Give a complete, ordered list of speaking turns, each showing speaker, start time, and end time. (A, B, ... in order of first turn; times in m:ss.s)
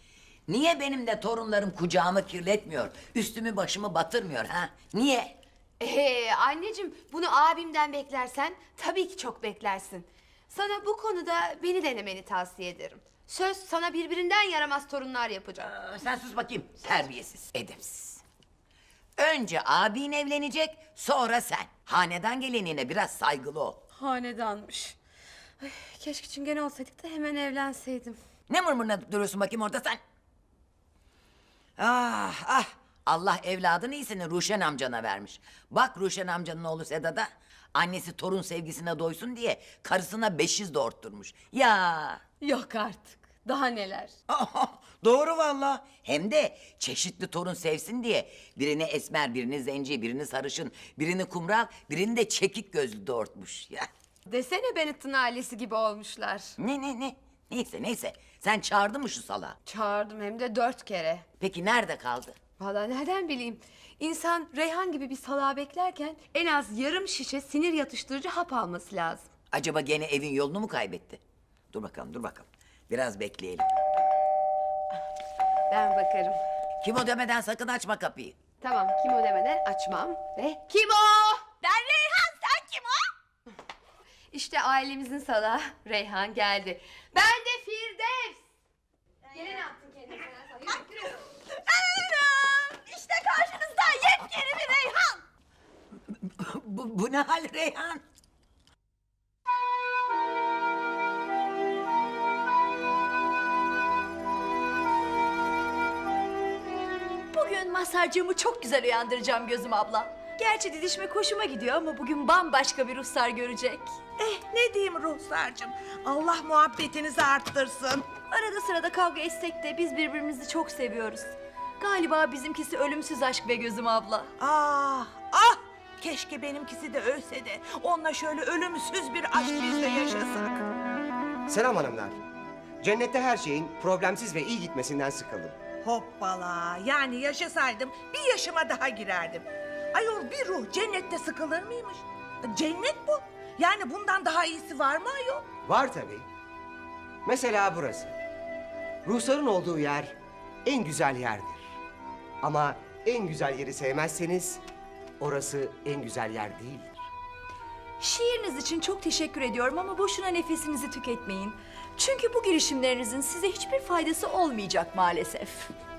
0:00.5-0:05.4 A
0:05.8-0:15.7 B
0:15.6-0:18.2 A
0:19.2-0:23.8 A
0:24.0-0:25.0 B
0:25.6-0:28.2 B
0:28.5-0:30.0 A
0:31.8-0:42.2 A
0:42.4-0:44.1 B
0:44.3-0:53.9 A
0:54.3-0:56.5 B
0:56.6-0:59.6 A
0:59.6-1:01.2 B
1:01.4-1:02.4 A
1:02.6-1:09.2 B
1:09.5-1:11.2 A
1:11.7-1:13.6 A
1:15.7-1:16.4 B
1:16.8-1:18.4 A
1:18.6-1:21.6 B
1:21.6-1:22.8 C
1:24.3-1:28.4 B
1:29.3-1:31.1 B
1:32.0-1:35.1 A
1:36.1-1:38.0 A
1:47.3-1:54.0 C
1:54.2-1:58.2 D
1:58.2-2:04.3 C
2:04.4-2:10.6 D
2:11.5-2:12.2 E
2:12.8-2:15.6 E
2:15.8-2:25.4 D
2:25.6-2:26.3 E
2:27.2-2:28.1 E
2:29.0-2:31.8 E
2:32.4-2:34.6 E
2:35.2-2:37.0 E
2:38.0-2:45.7 C